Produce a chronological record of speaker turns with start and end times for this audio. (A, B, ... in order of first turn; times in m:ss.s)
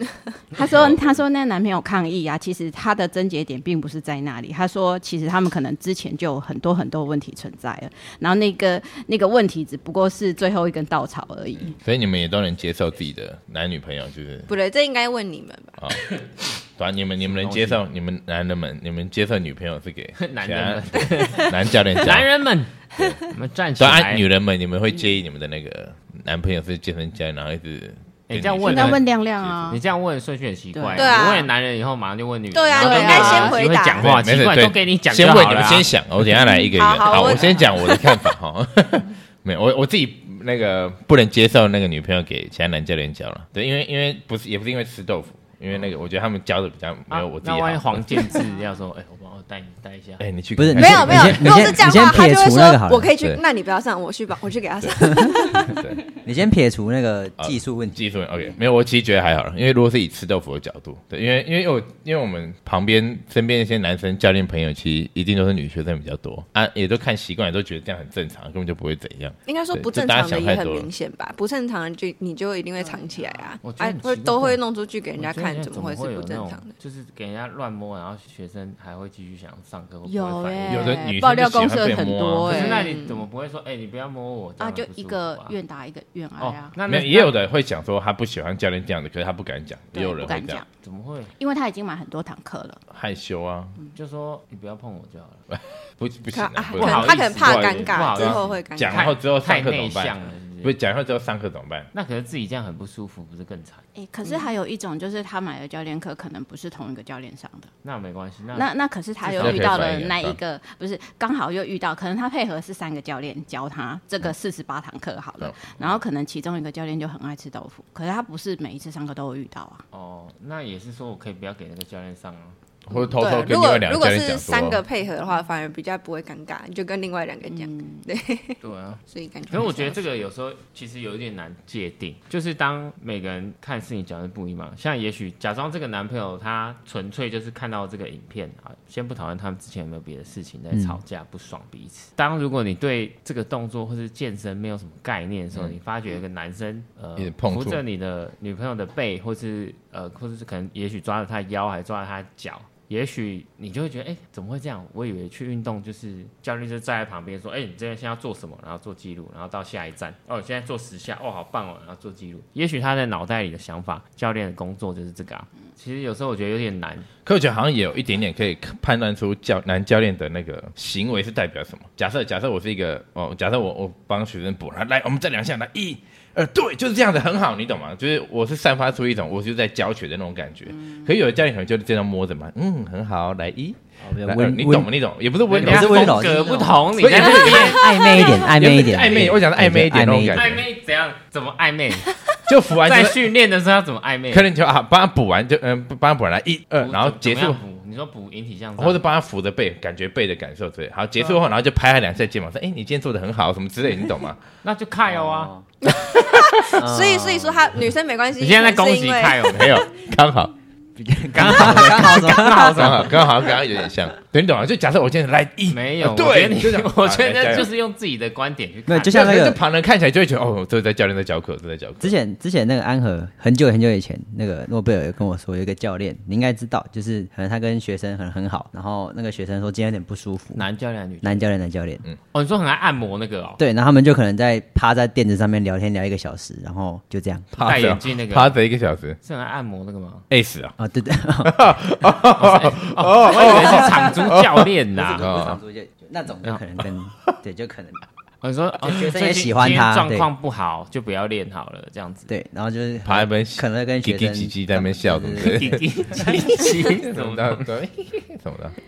0:00.5-0:11.8 A
0:00.6-0:01.0 B
0:11.8-0:14.5 B
0:14.5-0:15.8 C
0:15.8-0:16.1 B
0:16.8-0:22.3 B
0:17.2-0:17.8 D
0:20.2-0:22.7 D
0:23.0-0:23.2 C
0:23.3-0:24.2 D
0:23.8-0:29.8 B
0:28.3-0:29.0 D
0:28.6-0:29.8 A
0:29.7-0:35.9 D
0:30.7-0:31.3 A
0:31.0-0:31.5 C
0:32.5-0:34.2 C
0:32.8-0:33.6 A
0:34.0-0:48.2 B
0:36.8-0:37.7 A
0:36.8-0:38.1 C
0:47.1-0:50.2 D
0:50.2-0:51.8 B
0:50.6-0:53.2 E
0:50.8-0:55.8 C
0:55.6-0:56.0 B
0:56.2-0:58.0 E
0:57.4-1:10.9 B
1:09.5-1:16.7 C
1:13.6-1:14.6 D
1:15.2-1:21.0 D
1:20.0-1:22.8 A
1:20.7-1:22.7 B
1:22.4-1:23.2 C
1:22.5-1:25.6 D
1:24.6-1:26.8 A
1:26.4-1:27.4 D
1:26.9-1:30.6 B
1:29.9-1:30.7 A
1:30.8-1:31.3 D
1:31.4-1:32.8 A
1:32.9-1:33.8 B
1:33.9-1:35.4 D
1:35.5-1:41.9 B
1:36.3-1:39.1 C
1:36.8-1:40.7 D
1:41.9-1:43.8 D
1:44.0-1:47.7 A
1:47.8-1:48.7 D
1:48.5-1:59.8 A
1:49.2-1:49.8 D
1:49.4-1:50.4 B
1:55.4-1:56.0 B
1:59.9-2:02.6 D
2:02.9-2:04.8 B
2:03.1-2:10.0 C
2:07.5-2:08.0 A
2:08.6-2:47.1 D
2:20.7-2:21.0 E
2:27.2-2:27.8 B
2:47.2-3:10.6 B
3:04.0-3:04.9 E
3:05.5-3:08.2 D
3:05.5-3:06.6 E
3:07.2-3:10.6 E
3:10.3-3:12.2 D
3:12.5-3:13.3 B
3:12.8-3:14.5 D
3:14.3-3:17.6 B
3:16.8-3:19.0 D
3:18.8-3:24.4 B
3:24.6-3:25.5 D
3:25.1-3:25.7 E
3:25.8-3:29.8 C
3:26.8-3:27.7 E
3:28.4-3:29.8 D
3:29.5-3:30.5 B
3:31.0-3:33.2 E
3:31.3-3:33.2 D
3:31.4-3:37.7 B
3:35.7-3:39.4 D
3:38.9-3:39.6 E
3:39.1-3:42.2 B
3:42.0-3:50.6 E
3:50.6-3:51.5 D
3:51.2-3:52.1 E
3:52.3-3:53.6 D
3:53.6-3:57.5 E
3:57.5-3:59.2 B
3:57.6-3:58.6 D
3:59.2-4:00.3 D
4:00.3-4:00.8 B
4:00.8-4:01.8 E
4:01.4-4:04.7 B
4:02.4-4:05.4 D
4:04.9-4:08.0 E
4:05.2-4:05.6 B
4:08.4-4:12.3 D
4:08.8-4:10.3 E
4:12.3-4:16.3 E
4:13.0-4:18.8 B
4:15.4-4:17.7 D